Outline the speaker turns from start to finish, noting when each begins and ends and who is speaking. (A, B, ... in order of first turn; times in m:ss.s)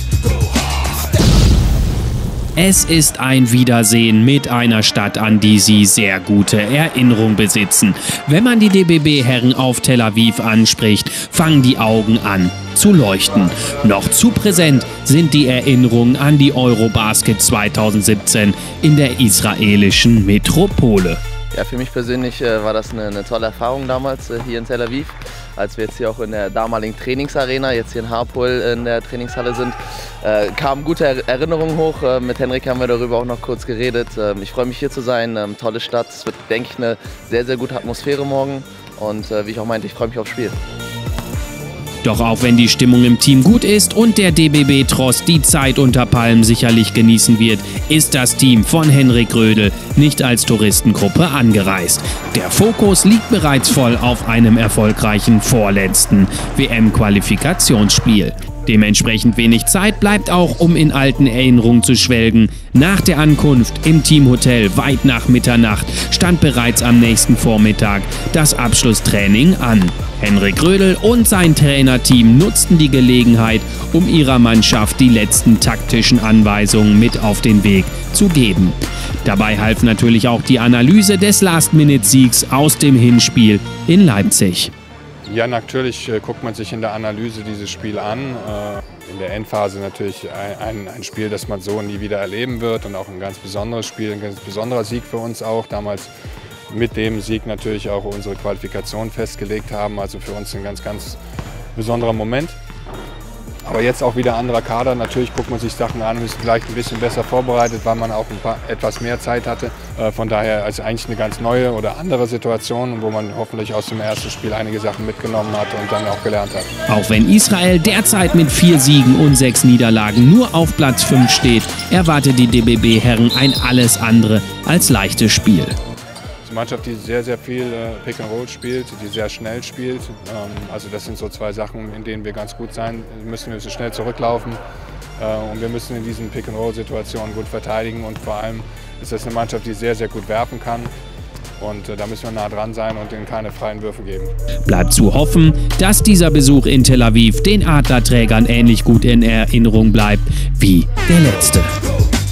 0:02.6-0:21.2 A
0:21.5-0:40.6 B
0:42.0-1:24.7 A
1:25.3-1:36.1 C
1:36.7-1:41.2 C
1:41.8-1:42.6 C
1:43.6-1:56.7 C
1:56.9-2:05.8 A
2:06.4-2:14.6 C
2:15.2-2:20.9 C
2:21.6-2:24.3 C
2:24.7-2:31.7 A